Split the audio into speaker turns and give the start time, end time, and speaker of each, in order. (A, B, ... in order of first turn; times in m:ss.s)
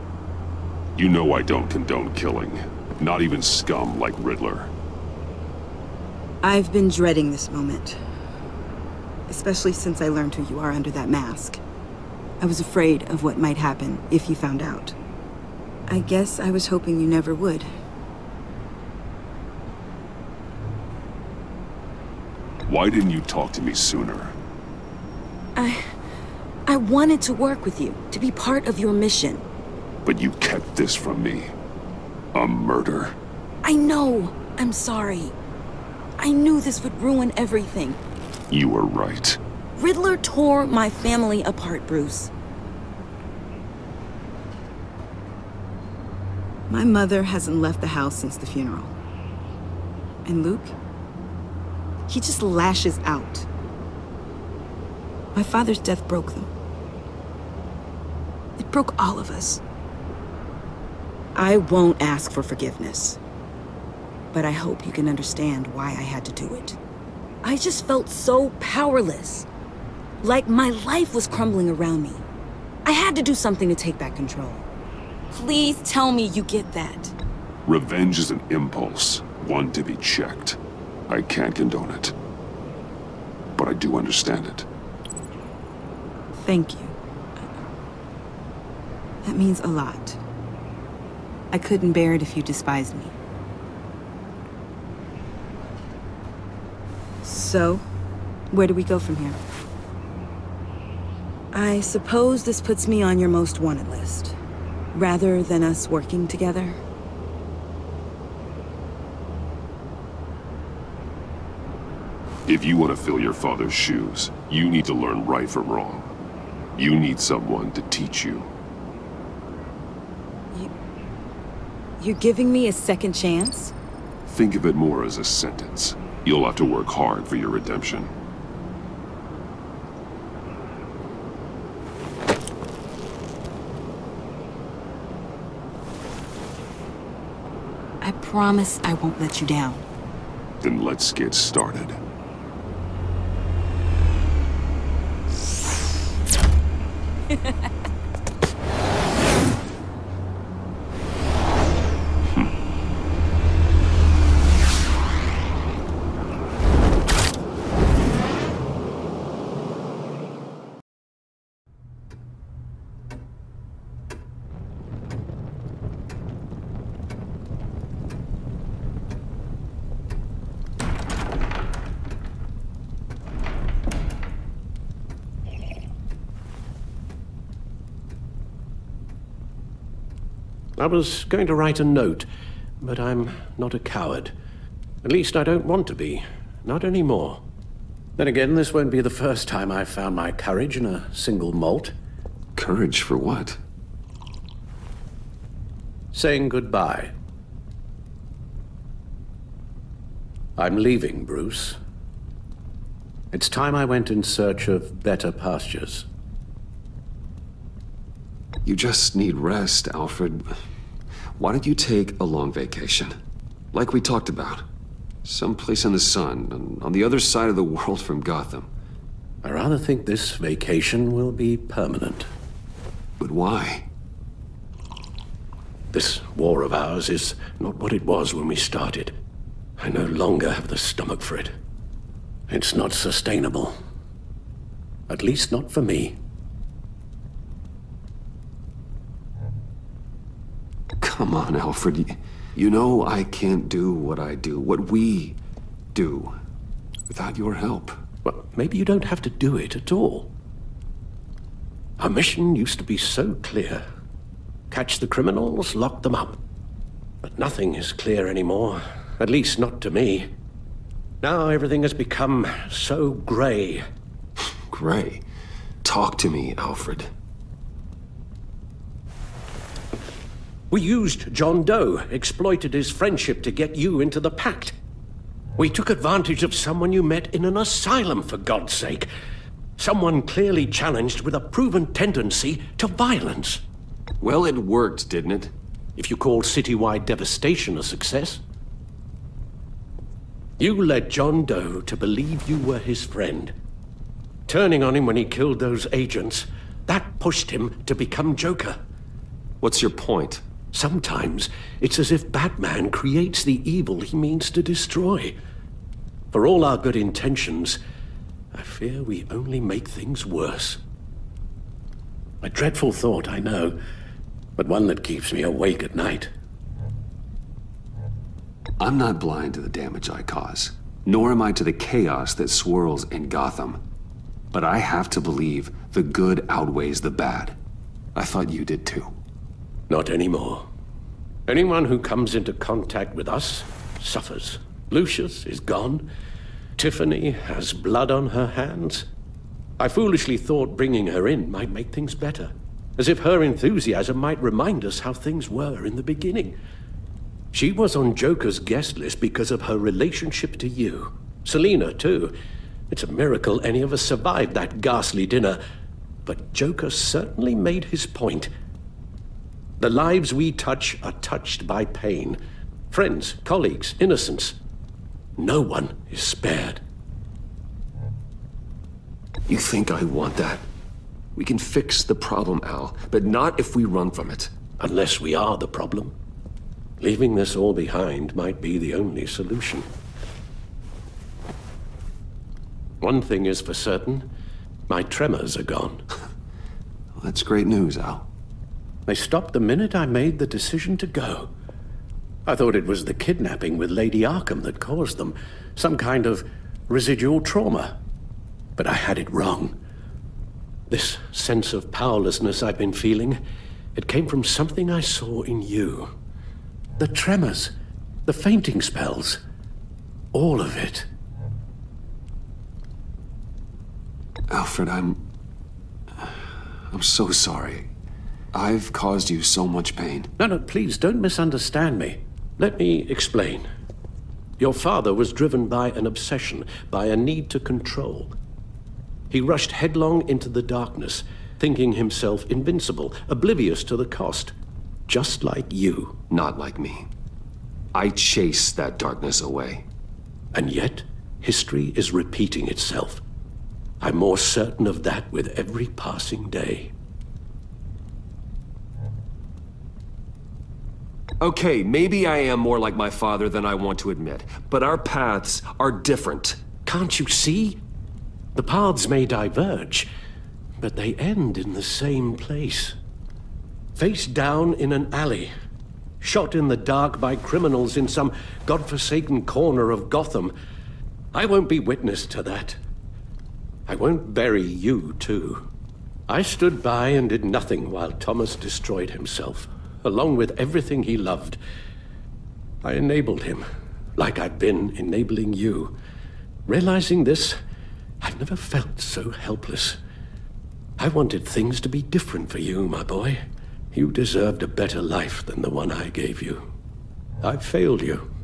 0:01.0-0:04.7 A
0:06.4-0:08.0 B
0:09.3-0:11.6 B
0:12.4-0:15.0 B
0:15.9-0:17.7 B
0:22.7-0:24.4 A
0:25.6-0:26.0 B
0:26.7-0:29.4 B
0:30.0-0:31.5 A
0:32.3-0:33.2 A
0:33.6-0:35.4 B
0:36.2-0:38.0 B
0:38.5-0:39.4 A
0:39.8-0:42.3 B
0:46.7-0:48.9 B
0:50.2-0:50.8 B
0:52.1-0:53.5 B
0:55.3-0:56.5 B
0:58.6-0:59.6 B
1:01.4-1:03.2 B
1:04.3-1:06.8 B
1:07.4-1:09.5 B
1:10.2-1:12.3 B
1:12.8-1:14.7 B
1:15.3-1:17.1 B
1:17.7-1:22.2 A
1:23.6-1:24.7 A
1:26.4-1:27.4 B
1:29.2-1:30.2 B
1:31.5-1:33.2 B
1:37.2-1:37.9 B
1:38.5-1:39.4 B
1:41.5-1:44.4 B
1:44.9-1:46.8 B
1:52.5-1:56.1 A
1:56.8-1:58.5 A
2:02.0-2:03.7 B
2:04.3-2:08.1 A
2:18.0-2:19.8 B
2:20.6-2:22.0 A
3:00.8-3:02.3 C
3:02.8-3:04.3 C
3:05.0-3:07.4 C
3:08.2-3:12.0 C
3:12.6-3:13.6 D
3:16.1-3:17.1 C
3:20.6-3:21.8 C
3:23.3-3:26.1 C
3:28.6-3:30.5 D
3:31.4-3:33.2 D
3:33.7-3:34.7 D
3:35.2-3:38.7 D
3:39.4-3:42.3 C
3:43.2-3:43.9 D
3:45.9-3:49.2 C
3:49.8-3:51.5 C
3:52.5-3:53.8 C
3:55.1-3:56.2 C
4:01.0-4:05.4 D
4:05.9-4:06.4 D
4:07.1-4:08.0 D
4:08.2-4:10.3 C
4:12.0-4:13.8 C
4:14.7-4:16.4 C
4:17.2-4:20.3 C
4:21.2-4:23.8 C
4:24.7-4:25.2 D
4:25.8-4:27.1 D
4:30.7-4:34.8 C
4:35.6-4:39.1 C
4:39.8-4:43.6 C
4:44.2-4:45.5 D
4:46.0-4:48.4 C
4:50.6-4:53.5 C
4:54.5-4:58.8 C
4:59.6-5:00.4 D
5:00.7-5:05.4 C
5:06.3-5:07.8 C
5:08.5-5:10.8 C
5:12.4-5:13.8 C
5:14.6-5:16.3 C
5:18.8-5:23.8 D
5:24.5-5:27.6 D
5:28.2-5:29.2 D
5:29.9-5:30.7 C
5:31.5-5:36.1 C
5:36.8-5:39.1 C
5:39.8-5:46.6 C
5:47.5-5:52.4 C
5:52.9-5:55.6 C
5:56.3-5:58.5 C
5:59.8-6:02.4 C
6:02.9-6:04.6 C
6:05.4-6:06.8 C
6:09.5-6:10.7 D
6:11.4-6:14.5 D
6:14.8-6:16.1 C
6:17.0-6:19.9 C
6:23.0-6:24.3 C
6:24.9-6:26.0 C
6:27.2-6:28.3 D
6:29.1-6:31.5 C
6:32.5-6:38.0 C
6:38.8-6:39.8 C
6:40.9-6:43.4 C
6:44.0-6:46.1 C
6:47.0-6:47.7 C
6:48.3-6:49.4 C
6:50.3-6:51.1 C
6:54.5-6:55.3 D
6:56.2-6:57.9 D
6:58.5-7:00.3 D
7:00.4-7:03.7 C
7:04.6-7:08.3 C
7:09.3-7:14.6 C
7:15.1-7:16.2 C
7:16.3-7:17.1 D
7:17.9-7:19.9 D
7:20.5-7:23.2 C
7:24.0-7:26.9 C
7:31.4-7:36.6 D
7:36.9-7:37.8 C
7:38.6-7:40.1 C
7:40.8-7:43.0 C
7:44.0-7:45.5 C
7:46.2-7:50.6 C
7:51.3-7:52.8 C
7:53.9-7:55.7 C
7:56.3-8:01.6 C
8:02.8-8:03.7 C
8:04.2-8:06.0 C
8:06.7-8:07.6 C
8:08.2-8:10.0 C
8:11.0-8:16.7 C
8:17.4-8:18.3 C